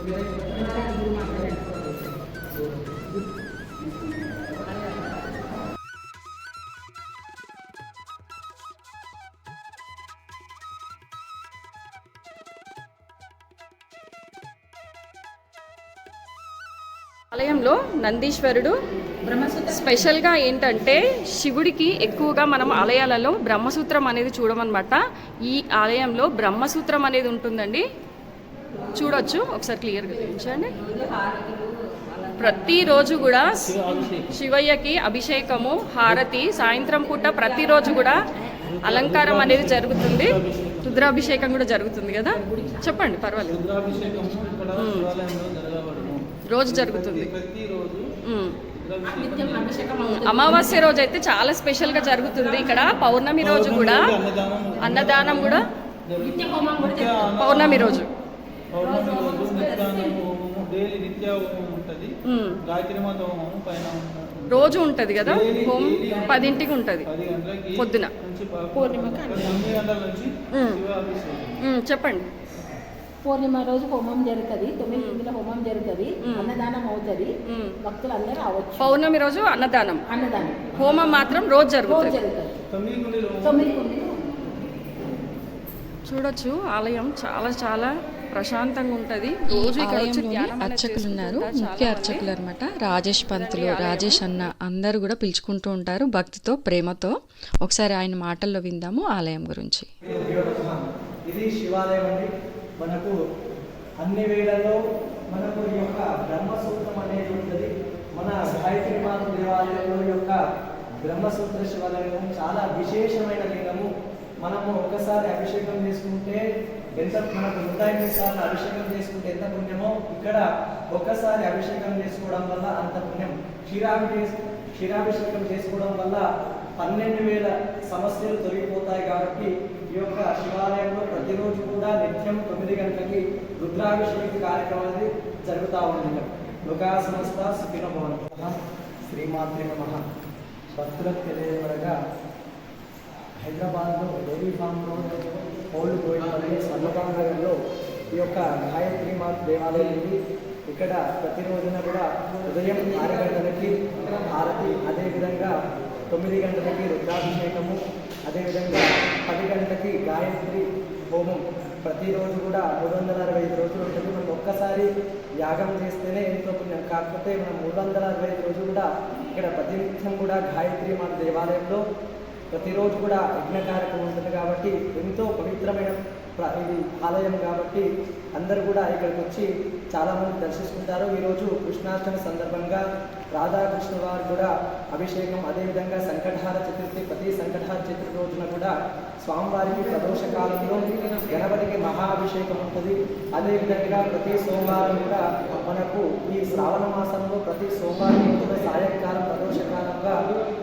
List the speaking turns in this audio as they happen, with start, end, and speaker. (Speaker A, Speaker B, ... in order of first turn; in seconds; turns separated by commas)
Speaker A: 0.5-1.6, Speaker B: 17.3-18.8, Speaker B: 19.3-27.8, Speaker B: 28.9-30.9, Speaker B: 32.3-33.7, Speaker C: 33.6-34.3, Speaker B: 34.3-38.2, Speaker C: 38.6-41.2, Speaker B: 38.8-43.6, Speaker C: 43.5-48.1, Speaker B: 44.8-45.1, Speaker B: 46.5-47.3, Speaker B: 48.3-48.5, Speaker C: 48.7-50.0, Speaker A: 49.2-50.9, Speaker B: 50.0-54.1, Speaker C: 53.4-58.0, Speaker B: 54.8-55.6, Speaker A: 56.4-57.0, Speaker B: 57.3-58.1, Speaker C: 58.7-62.1, Speaker B: 62.2-62.6, Speaker C: 62.6-71.6, Speaker B: 64.5-67.1, Speaker B: 67.8-68.1, Speaker B: 70.5-70.8, Speaker B: 71.6-72.2, Speaker A: 73.2-79.0, Speaker B: 74.9-75.2, Speaker B: 76.2-76.6, Speaker B: 77.5-77.8, Speaker B: 78.8-80.0, Speaker A: 80.1-80.7, Speaker B: 80.7-82.2, Speaker A: 81.8-82.6, Speaker C: 82.7-83.7, Speaker A: 83.4-84.1, Speaker B: 86.0-92.2, Speaker D: 89.5-97.1, Speaker B: 93.3-94.2, Speaker D: 97.6-99.9, Speaker E: 100.0-103.2, Speaker E: 104.0-104.8, Speaker E: 105.3-110.4, Speaker E: 111.0-113.9, Speaker E: 114.4-116.4, Speaker E: 117.0-126.2, Speaker E: 126.8-140.0, Speaker E: 140.7-142.0, Speaker E: 143.4-145.2, Speaker E: 145.7-147.6, Speaker E: 148.1-155.5, Speaker E: 156.1-164.9, Speaker E: 165.4-171.8, Speaker E: 172.5-177.8, Speaker E: 178.3-200.2